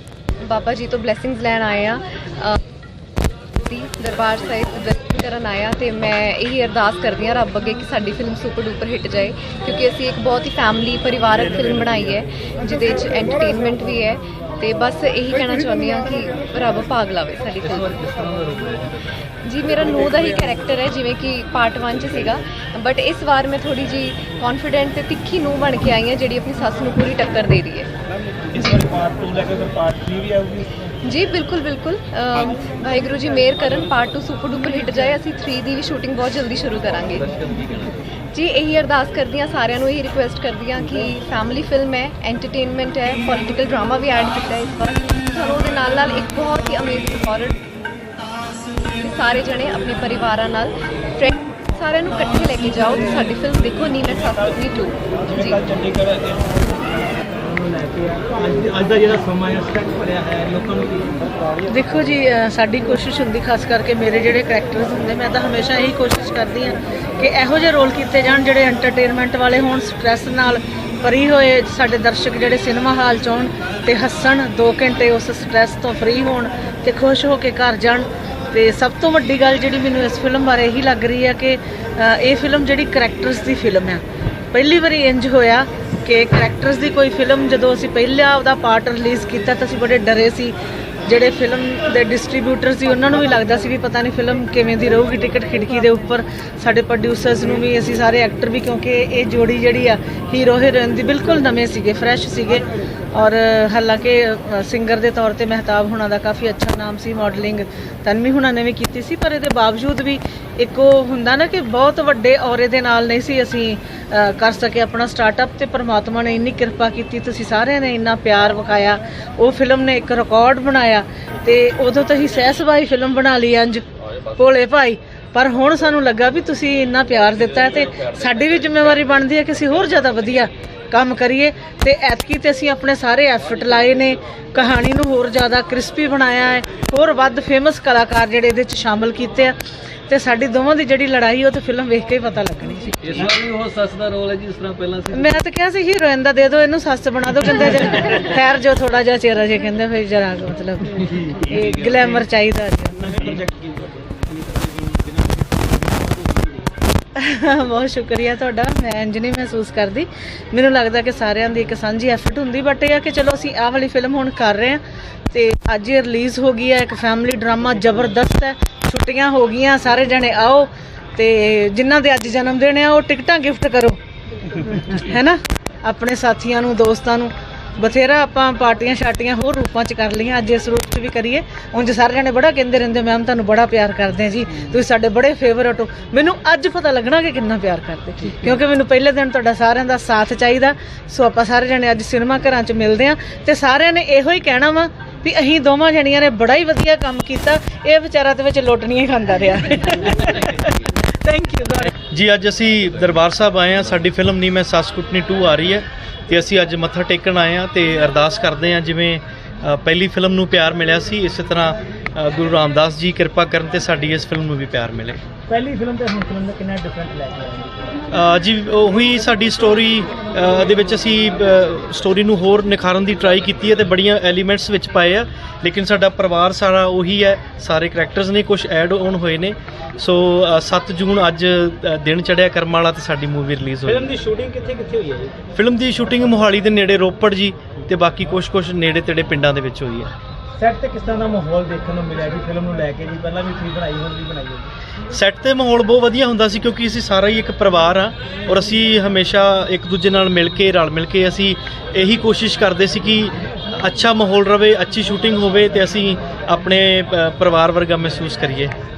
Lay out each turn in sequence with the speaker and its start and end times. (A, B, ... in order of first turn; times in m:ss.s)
0:00.4-0:02.6 A
0:03.6-0:18.0 A
0:17.8-0:19.0 B
0:19.4-0:27.9 A
0:28.5-0:30.7 C
0:28.6-0:28.8 A
0:31.0-0:37.3 A
0:37.3-0:38.0 B
0:38.3-0:47.6 A
0:49.0-0:55.6 A
0:55.3-1:01.3 C
1:01.7-1:24.0 D
1:24.5-1:30.5 D
1:31.1-2:19.6 D
2:20.1-2:23.2 D
2:23.0-2:25.3 B
2:25.1-2:33.1 D
2:31.1-2:32.0 C
2:33.0-2:36.7 C
2:37.2-2:44.8 D
2:45.3-2:54.0 D
2:54.7-3:21.9 D
3:22.1-3:35.2 E
3:35.5-3:38.0 C
3:38.1-3:54.1 E
3:53.8-3:55.4 C
3:55.6-4:00.1 E
4:00.6-4:04.7 C
4:05.1-4:18.7 E